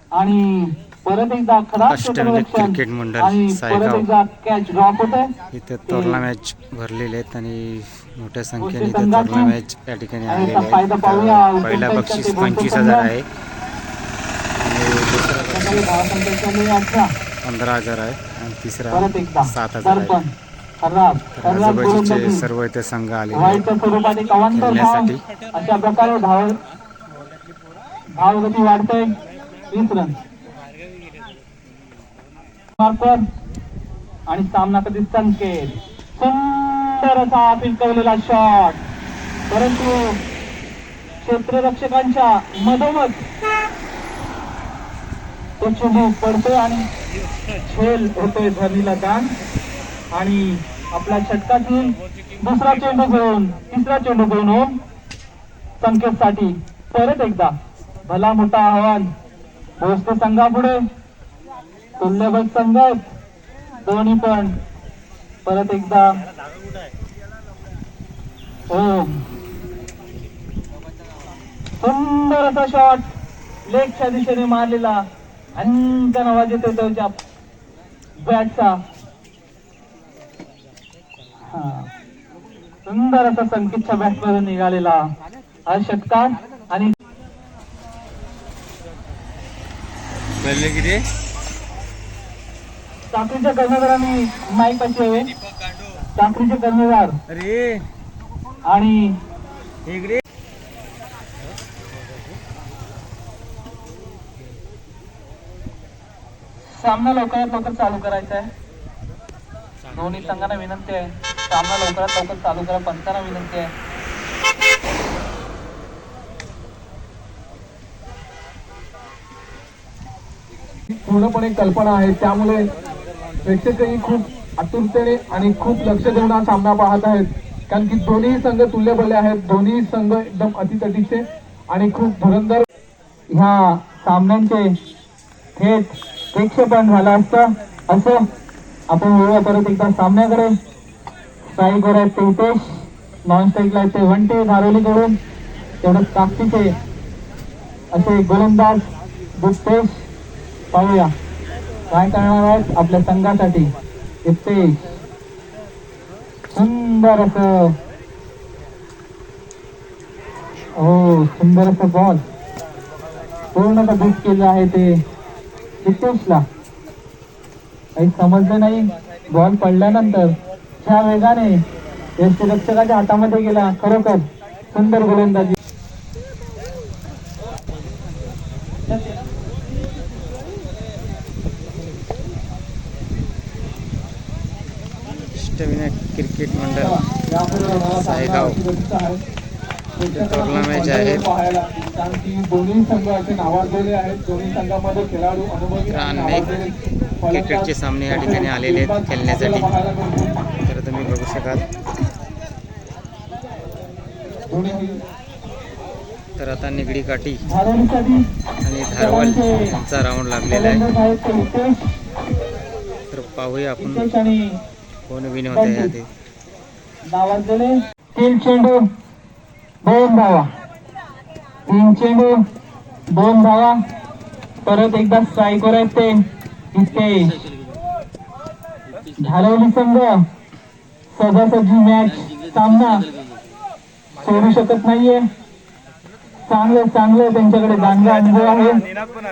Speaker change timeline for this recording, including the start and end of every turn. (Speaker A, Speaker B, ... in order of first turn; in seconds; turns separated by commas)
Speaker A: 0.2-5.3, Speaker B: 1.8-4.1, Speaker B: 5.5-13.3, Speaker A: 5.9-6.2, Speaker A: 8.6-9.5, Speaker A: 10.3-13.1, Speaker B: 14.6-15.9, Speaker A: 15.5-17.1, Speaker B: 17.4-20.2, Speaker A: 18.9-22.5, Speaker B: 21.4-23.7, Speaker A: 23.3-26.6, Speaker B: 24.5-25.2, Speaker A: 28.2-29.1, Speaker A: 29.7-30.2, Speaker A: 32.8-33.2, Speaker A: 34.3-38.8, Speaker A: 39.5-40.2, Speaker A: 41.2-43.2, Speaker A: 45.6-46.9, Speaker A: 47.6-49.3, Speaker A: 50.1-54.8, Speaker A: 55.8-57.5, Speaker A: 58.1-59.1, Speaker A: 59.8-60.8, Speaker A: 62.0-63.1, Speaker A: 63.8-64.5, Speaker A: 65.5-66.1, Speaker A: 68.7-69.2, Speaker A: 71.8-73.1, Speaker A: 73.7-75.0, Speaker A: 75.6-77.2, Speaker A: 78.2-78.8, Speaker A: 81.5-81.9, Speaker A: 82.9-85.0, Speaker A: 85.7-86.9, Speaker B: 90.5-91.0, Speaker A: 93.1-95.3, Speaker A: 96.2-97.2, Speaker A: 98.7-99.2, Speaker A: 106.7-108.5, Speaker A: 109.9-113.7, Speaker C: 120.9-122.7, Speaker C: 123.4-132.7, Speaker A: 133.3-134.7, Speaker A: 135.6-138.2, Speaker A: 138.9-140.5, Speaker A: 141.5-145.2, Speaker A: 145.8-146.7, Speaker A: 147.9-150.0, Speaker A: 150.7-151.1, Speaker A: 151.9-153.7, Speaker A: 154.3-154.9, Speaker A: 156.5-157.7, Speaker A: 160.8-162.2, Speaker A: 163.6-165.0, Speaker A: 165.8-166.4, Speaker A: 168.0-171.6, Speaker A: 172.2-175.6, Speaker B: 185.4-187.0, Speaker C: 187.2-189.2, Speaker B: 187.6-188.6, Speaker C: 190.0-196.7, Speaker B: 190.1-191.3, Speaker A: 190.7-191.2, Speaker B: 195.9-196.5, Speaker C: 197.2-200.4, Speaker B: 197.3-199.7, Speaker B: 200.6-201.7, Speaker C: 204.5-205.0, Speaker B: 206.4-207.4, Speaker A: 207.5-208.2, Speaker B: 208.6-210.9, Speaker A: 208.9-209.7, Speaker A: 210.5-211.8, Speaker B: 213.1-214.1, Speaker A: 213.8-214.4, Speaker B: 215.1-216.1, Speaker A: 215.5-215.9, Speaker A: 217.1-218.8, Speaker A: 219.8-220.5, Speaker A: 221.7-222.4, Speaker A: 223.1-223.8, Speaker A: 224.7-226.2, Speaker A: 226.7-227.4, Speaker A: 229.2-230.1, Speaker A: 231.1-233.1, Speaker A: 234.2-235.2, Speaker A: 236.5-238.8